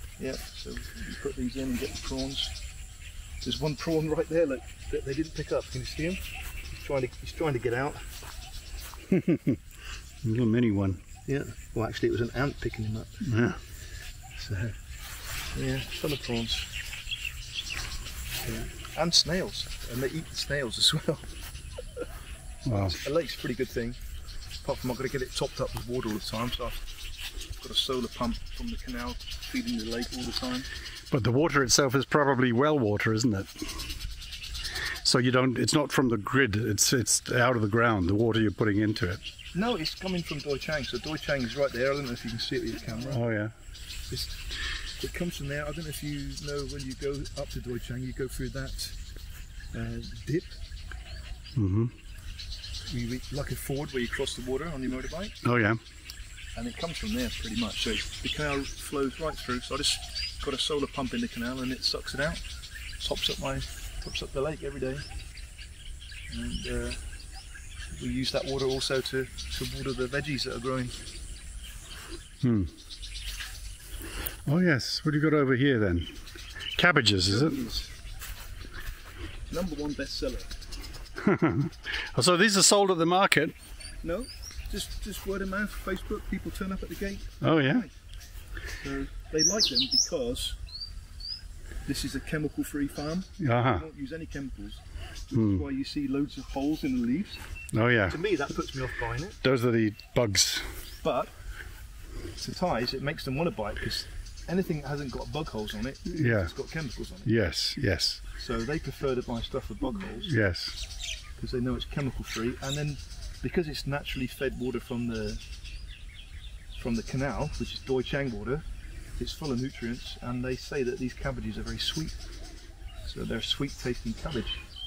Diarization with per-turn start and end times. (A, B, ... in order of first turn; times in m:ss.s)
0:00.2-0:02.6 A
0:03.4-0:08.1 A
0:09.1-0:09.6 B
0:10.2-0:11.0 B
0:11.3-0:13.2 A
0:13.2-0:13.6 B
0:14.4-0:14.8 A
0:15.5-0:16.7 A
0:18.4-0:21.3 A
0:22.7-0:23.0 B
0:22.8-0:24.0 A
0:24.6-0:26.9 A
0:27.6-0:30.7 A
0:31.1-0:33.9 B
0:35.0-0:39.2 B
0:39.5-0:43.2 A
0:43.1-0:43.5 B
0:44.1-0:44.4 A
0:45.0-0:49.0 A
0:49.7-0:50.6 A
0:51.6-0:51.9 B
0:52.9-0:55.4 A
0:55.4-0:55.8 B
0:56.6-1:02.4 A
1:03.0-1:05.1 A
1:06.3-1:07.0 A
1:07.9-1:11.0 A
1:12.4-1:12.7 B
1:14.5-1:16.2 B
1:16.8-1:17.6 B
1:17.2-1:17.9 A
1:19.5-1:20.7 A
1:21.2-1:23.6 B
1:24.0-1:27.9 A
1:27.4-1:27.9 B
1:28.8-1:30.6 A
1:31.9-1:34.8 A
1:33.4-1:33.9 B
1:35.3-1:35.7 B
1:35.3-1:37.4 A
1:37.7-1:38.2 B
1:38.1-1:39.4 A
1:39.4-1:40.7 B
1:41.0-1:41.3 A
1:42.4-1:47.3 A
1:46.1-1:46.5 B
1:47.2-1:48.2 B
1:48.4-1:50.3 A
1:50.2-1:50.8 B
1:51.4-1:55.4 A
1:56.8-1:58.6 A
1:59.2-2:02.2 A
2:03.0-2:04.6 A